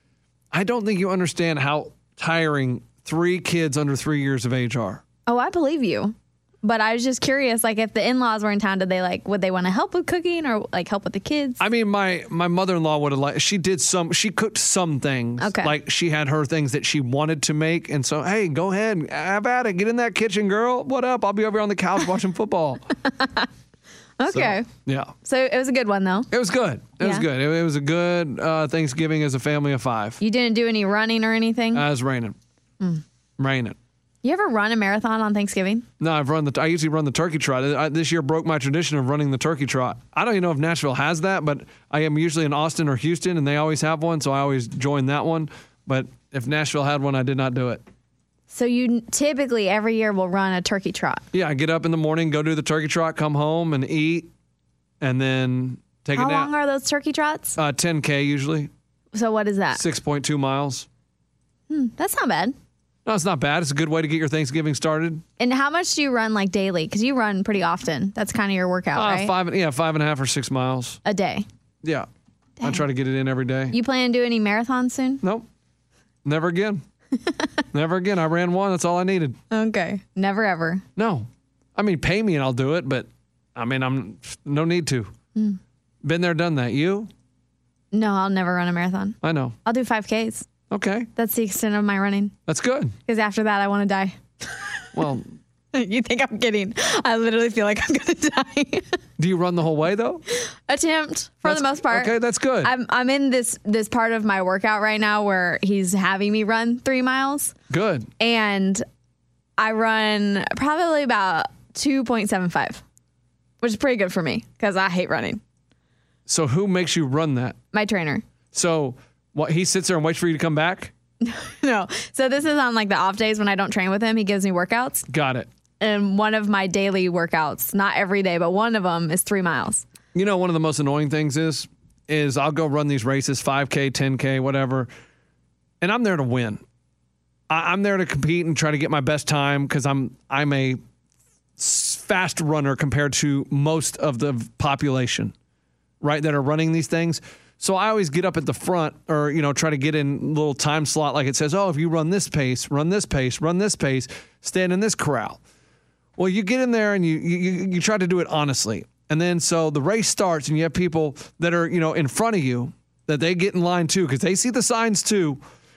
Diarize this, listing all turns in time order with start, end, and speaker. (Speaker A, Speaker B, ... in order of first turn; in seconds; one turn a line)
Speaker A: 0.5-5.0
Speaker B: 5.3-11.6
Speaker A: 11.6-22.8
Speaker B: 15.4-15.7
Speaker B: 23.2-23.5
Speaker B: 24.2-24.7
Speaker A: 24.3-25.1
Speaker B: 25.2-26.3
Speaker A: 26.3-30.2
Speaker B: 27.0-27.2
Speaker B: 30.2-31.8
Speaker A: 31.7-32.3
Speaker A: 33.4-33.8
Speaker B: 34.2-35.8
Speaker A: 36.0-47.8
Speaker B: 48.5-51.2
Speaker A: 51.3-54.3
Speaker A: 55.0-56.5
Speaker B: 56.1-57.6
Speaker A: 57.6-58.7
Speaker B: 59.1-59.8
Speaker A: 59.7-60.9
Speaker B: 61.7-62.5
Speaker A: 63.0-65.2
Speaker B: 65.4-69.3
Speaker A: 68.9-71.0
Speaker B: 71.0-71.5
Speaker A: 72.6-73.7
Speaker B: 73.7-75.2
Speaker A: 76.2-76.8
Speaker A: 77.7-79.4
Speaker B: 79.5-80.8
Speaker A: 81.0-85.1
Speaker A: 86.0-87.1
Speaker B: 87.9-90.5
Speaker A: 89.2-89.6
Speaker A: 90.7-91.1
Speaker B: 91.2-92.3
Speaker A: 92.5-92.9
Speaker B: 93.0-94.7
Speaker A: 94.9-95.3
Speaker B: 95.7-98.9
Speaker A: 99.2-100.2
Speaker B: 100.5-107.5
Speaker A: 101.4-102.7
Speaker A: 107.7-108.1
Speaker B: 108.2-108.8
Speaker B: 109.6-112.8
Speaker B: 113.6-115.4
Speaker A: 116.3-117.5
Speaker B: 117.7-118.2
Speaker A: 118.5-120.9
Speaker B: 121.2-125.1
Speaker A: 125.1-125.5
Speaker B: 125.8-129.8
Speaker A: 130.1-134.9
Speaker A: 135.8-136.6
Speaker A: 137.5-140.8
Speaker A: 141.6-145.3
Speaker A: 146.0-155.4
Speaker A: 156.2-165.4